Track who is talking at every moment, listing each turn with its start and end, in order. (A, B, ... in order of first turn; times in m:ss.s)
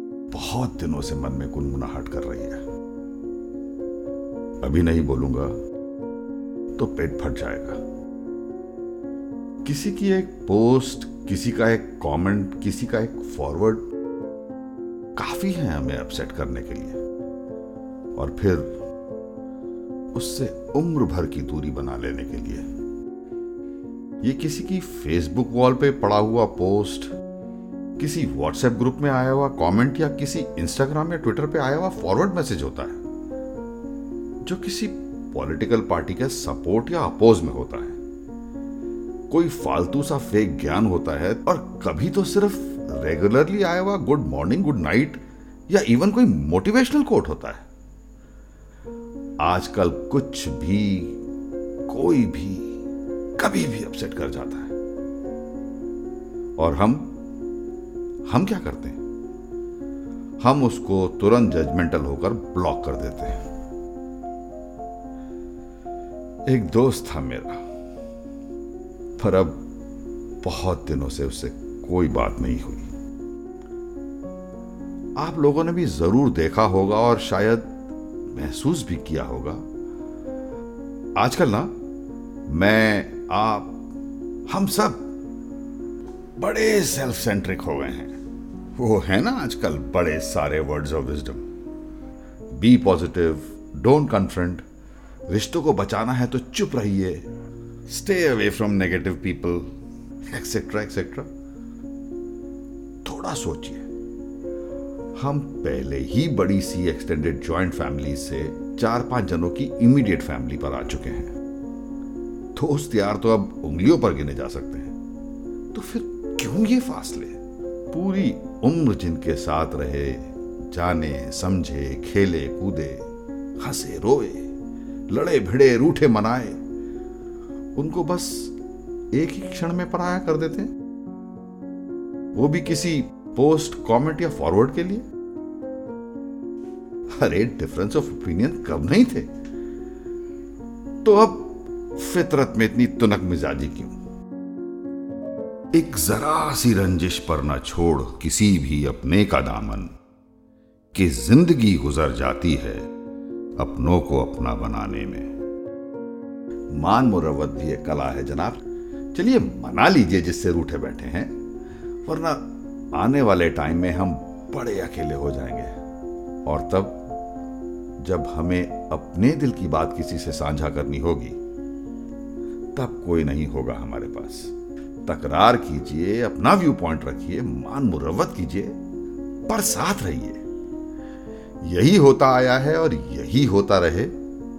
0:00.3-0:02.6 A
0:04.6-0:05.5 A
0:06.8-0:07.8 A
0:09.6-0:13.8 A
0:15.1-0:17.0 A
0:18.1-0:18.7 A
0:20.1-0:22.6 A
0:24.2-0:27.1 A
0:28.0-0:33.0 A
0:34.4-0:38.0 A
0:39.3-0:47.6 A
0:49.4-0:51.2 A
0:51.9-0:52.8 A
0:53.4-0:54.7 A
0:56.6-0:57.1 A
0:58.2-0:59.0 A
1:00.4-1:03.4 A
1:06.4-1:07.6 A
1:09.2-1:09.6 A
1:10.4-1:12.9 A
1:15.2-1:17.8 A
1:18.3-1:19.6 A
1:21.2-1:21.7 A
1:22.5-1:23.8 A
1:24.5-1:25.1 A
1:26.4-1:28.1 A
1:28.7-1:31.4 A
1:32.5-1:34.6 A
1:35.3-1:37.3 A
1:37.9-1:39.7 A
1:40.3-1:41.3 A
1:43.0-1:43.8 A
1:45.1-1:51.3 A
1:52.6-1:54.9 A
1:55.7-1:57.4 A
1:57.9-2:03.0 A
2:03.6-2:04.5 A
2:05.1-2:06.6 A
2:07.7-2:08.5 A
2:09.1-2:10.7 A
2:12.3-2:15.0 A
2:17.1-2:19.3 A
2:21.0-2:24.0 A
2:25.7-2:29.9 A
2:30.9-2:32.9 A
2:33.6-2:35.3 A
2:36.7-2:38.6 A
2:39.1-2:41.3 A
2:42.0-2:45.8 A
2:46.4-2:47.0 A
2:48.0-2:51.4 A
2:52.7-2:54.5 A
2:55.0-2:58.8 A
2:59.5-3:00.4 A
3:01.6-3:04.1 A